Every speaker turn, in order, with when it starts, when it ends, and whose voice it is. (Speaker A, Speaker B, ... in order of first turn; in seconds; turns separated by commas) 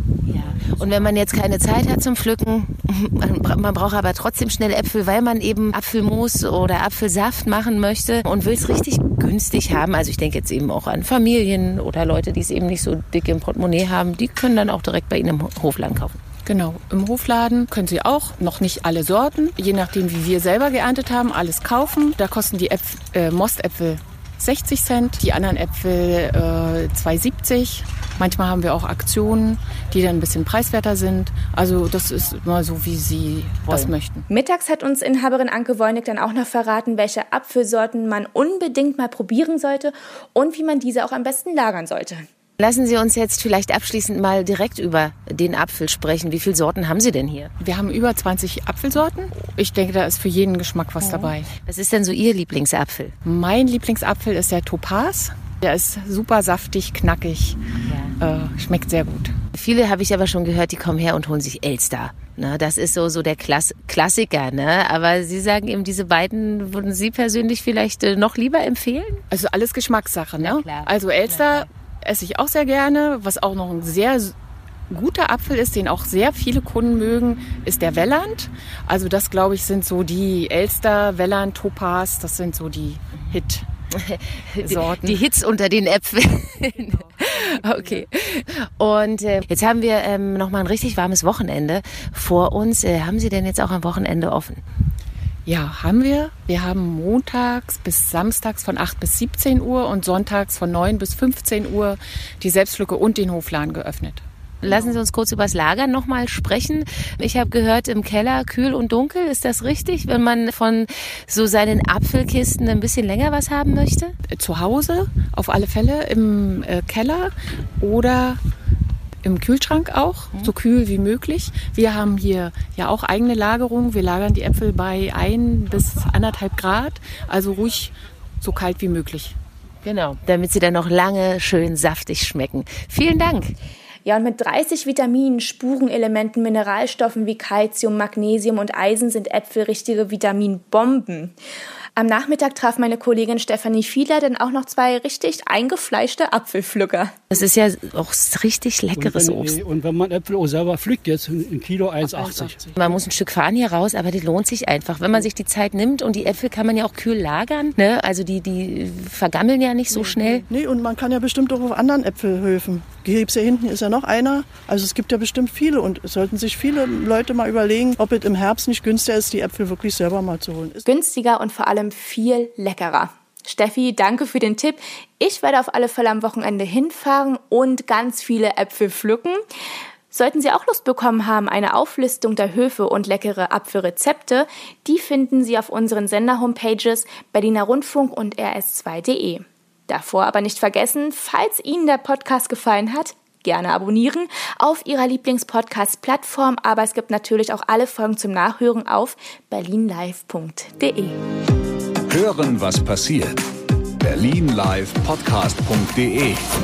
Speaker A: 0.3-16.2, Speaker B: 16.4-34.2, Speaker C: 34.3-42.2, Speaker A: 42.6-47.5, Speaker B: 47.6-51.5, Speaker A: 51.0-53.1, Speaker B: 53.2-57.6, Speaker A: 57.9-58.1, Speaker B: 58.2-59.3, Speaker A: 59.5-69.2, Speaker B: 69.3-74.3, Speaker A: 70.4-71.7, Speaker B: 74.9-83.7, Speaker A: 83.9-94.6, Speaker B: 84.6-85.2, Speaker B: 87.4-88.0, Speaker B: 95.5-104.7, Speaker A: 104.6-114.1, Speaker B: 114.3-118.4, Speaker B: 119.2-129.4, Speaker A: 129.8-133.5, Speaker C: 134.0-141.3, Speaker C: 142.0-147.1, Speaker A: 147.3-149.5, Speaker D: 148.9-152.7, Speaker A: 152.8-160.4, Speaker E: 159.9-170.8, Speaker C: 170.8-179.4, Speaker C: 180.1-201.2, Speaker F: 202.1-203.4, Speaker F: 204.0-206.4